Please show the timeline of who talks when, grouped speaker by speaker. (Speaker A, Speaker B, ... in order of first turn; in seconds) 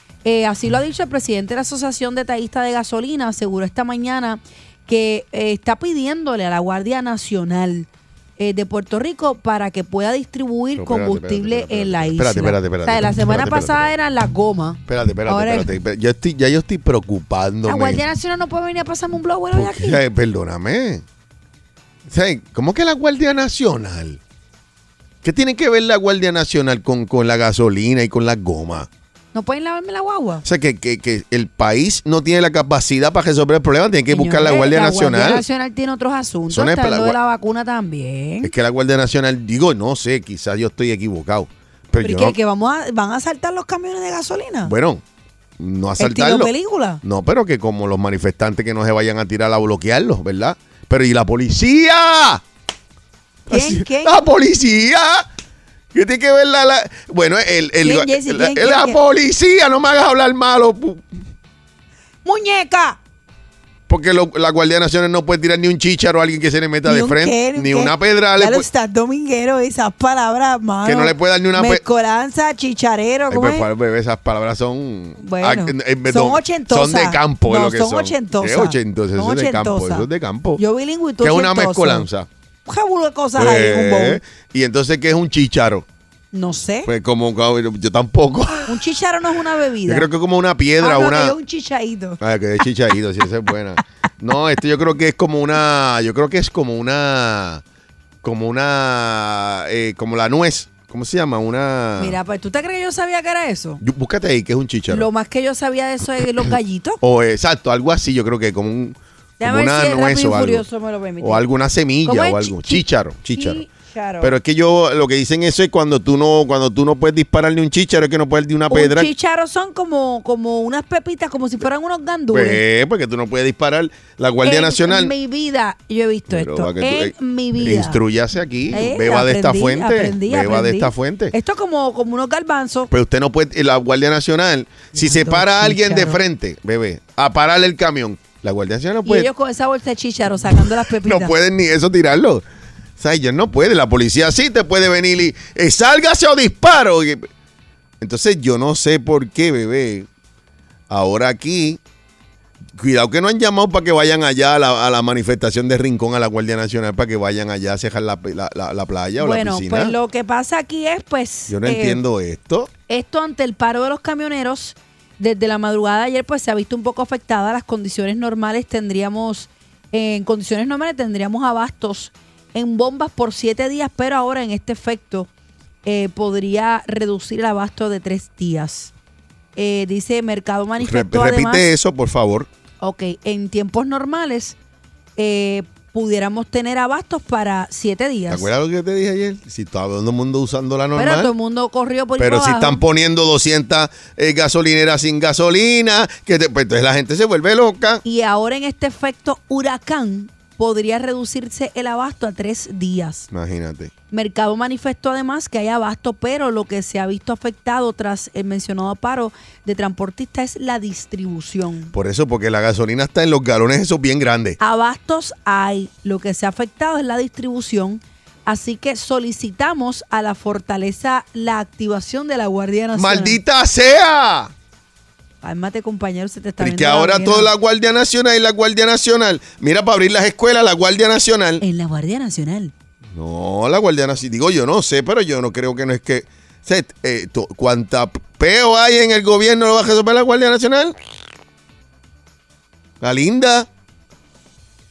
Speaker A: 0.2-15.7, 17.6-20.0, 29.3-30.4, 34.1-38.5, 42.0-44.7, 46.0-47.0, 53.5-54.2, 57.8-59.0, 62.2-63.0, 66.8-73.7, 75.2-82.1, 82.7-84.2, 86.3-86.9, 88.7-90.1, 90.8-92.2, 102.0-103.8, 104.9-107.0, 109.4-111.4, 112.0-114.3, 118.7-122.6, 124.4-128.0, 128.7-132.9, 134.9-136.2, 139.0-141.3, 159.2-162.0, 162.9-175.3, 175.8-178.9, 179.6-181.7, 182.8-184.6, 185.2-188.5, 190.9-192.8, 198.0-203.3, 204.1-211.9, 214.6-223.4, 225.4-227.5, 231.6-232.7
Speaker B: 10.8-13.9, 14.9-18.0, 19.5-21.0, 22.1-24.2, 25.2-28.9, 30.4-35.4, 36.5-37.2, 38.4-42.4, 44.6-45.0, 45.6-52.4, 53.5-55.3, 55.9-61.0, 63.9-68.7, 70.8-71.8, 73.3-80.6, 81.2-82.3, 83.3-85.8, 86.8-88.8, 89.8-91.3, 92.2-97.6, 98.2-102.2, 103.8-105.1, 107.0-110.6, 111.2-113.6, 114.2-119.1, 122.3-125.1, 126.3-131.3, 132.9-139.3, 140.6-142.4, 143.0-147.3, 148.0-150.1, 150.9-151.8, 152.8-159.9, 161.5-162.7, 180.8-182.5, 188.3-191.3, 192.2-198.0, 203.3-203.9, 211.9-214.6, 222.9-224.5, 226.6-231.6, 233.1-240.9, 243.0-243.7